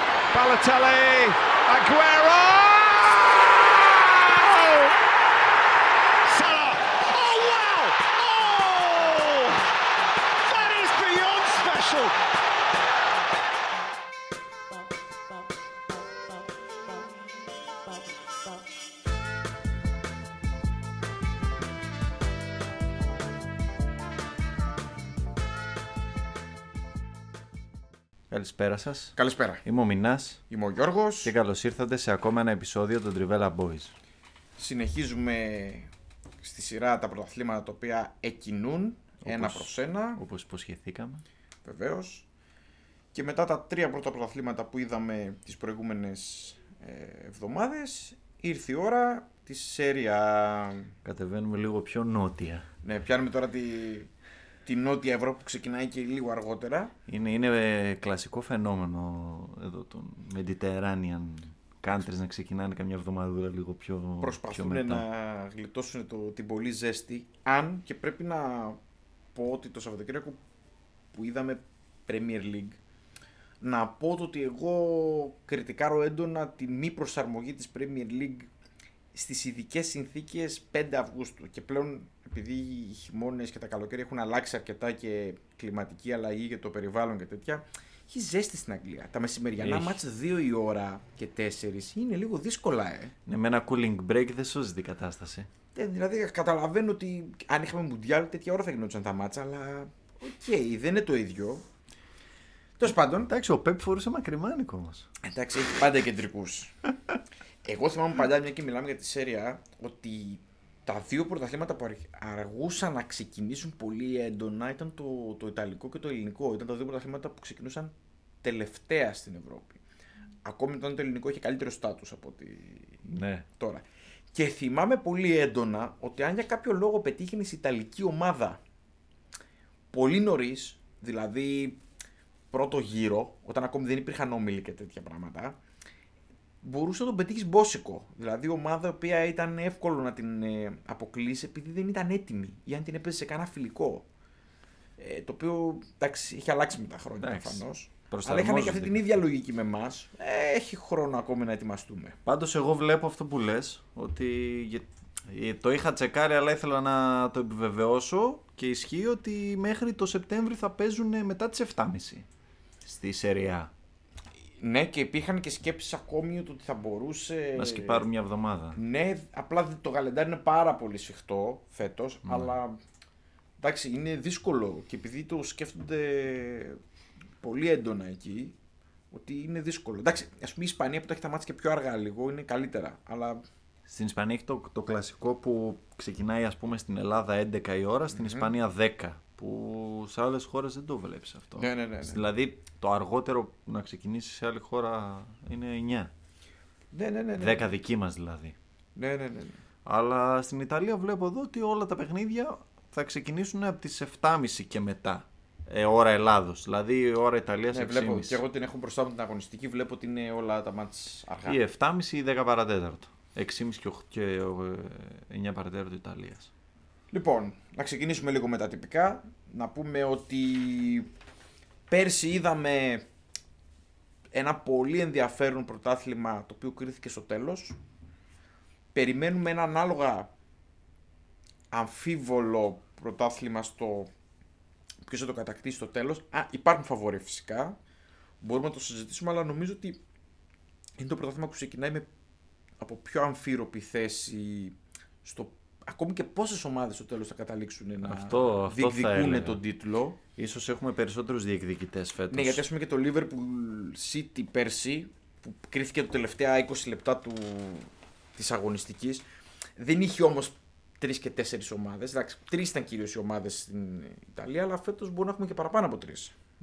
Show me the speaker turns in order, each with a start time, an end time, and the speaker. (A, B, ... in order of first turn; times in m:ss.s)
0:00.3-0:05.0 A
0:06.2-0:09.8 A
0:10.4-0:12.2 A
0:28.3-0:30.4 B
0:29.2-0:29.6 C
0:30.5-0:31.3 C
0:31.2-0:33.9 B
0:34.6-0:35.9 C
0:36.4-0:40.2 C
0:39.2-0:41.2 B
0:41.6-0:42.3 C
0:43.1-0:50.9 C
0:51.0-0:52.6 B
0:52.8-0:54.1 C
0:54.6-0:56.9 C
0:57.1-1:05.0 B
1:04.2-1:08.8 C
1:09.3-1:10.4 C
1:11.1-1:12.8 C
1:13.6-1:18.5 C
1:19.1-1:33.1 C
1:29.6-1:30.0 B
1:33.2-1:35.5 B
1:35.7-1:41.6 C
1:42.8-1:43.3 C
1:43.3-1:45.1 B
1:45.2-1:46.7 C
1:47.6-1:59.8 C
2:00.4-2:08.6 C
2:03.0-2:03.4 B
2:09.9-2:11.8 C
2:12.5-2:15.6 C
2:16.6-2:24.0 C
2:25.0-2:32.2 C
2:27.2-2:29.0 B
2:32.2-2:42.2 B
2:42.8-2:43.7 B
2:44.6-2:48.1 C
2:47.6-2:48.8 B
2:48.7-2:52.8 C
2:52.2-2:52.6 B
2:53.6-2:56.8 C
2:57.4-2:58.5 C
2:59.1-3:03.4 C
3:03.9-3:16.1 B
3:08.1-3:08.5 C
3:11.6-3:12.3 C
3:16.9-3:17.6 C
3:17.4-3:18.6 B
3:19.0-3:19.6 C
3:19.8-3:28.4 B
3:27.7-3:31.6 C
3:31.5-3:36.5 B
3:37.1-3:41.1 C
3:41.9-3:43.0 C
3:44.3-3:47.8 C
3:48.9-3:50.3 C
3:51.7-3:54.1 C
3:55.0-3:57.8 C
3:58.4-4:00.0 C
4:01.0-4:02.1 C
4:02.8-4:10.2 C
4:08.0-4:09.6 B
4:10.4-4:12.6 B
4:12.3-4:19.2 C
4:19.8-4:26.3 C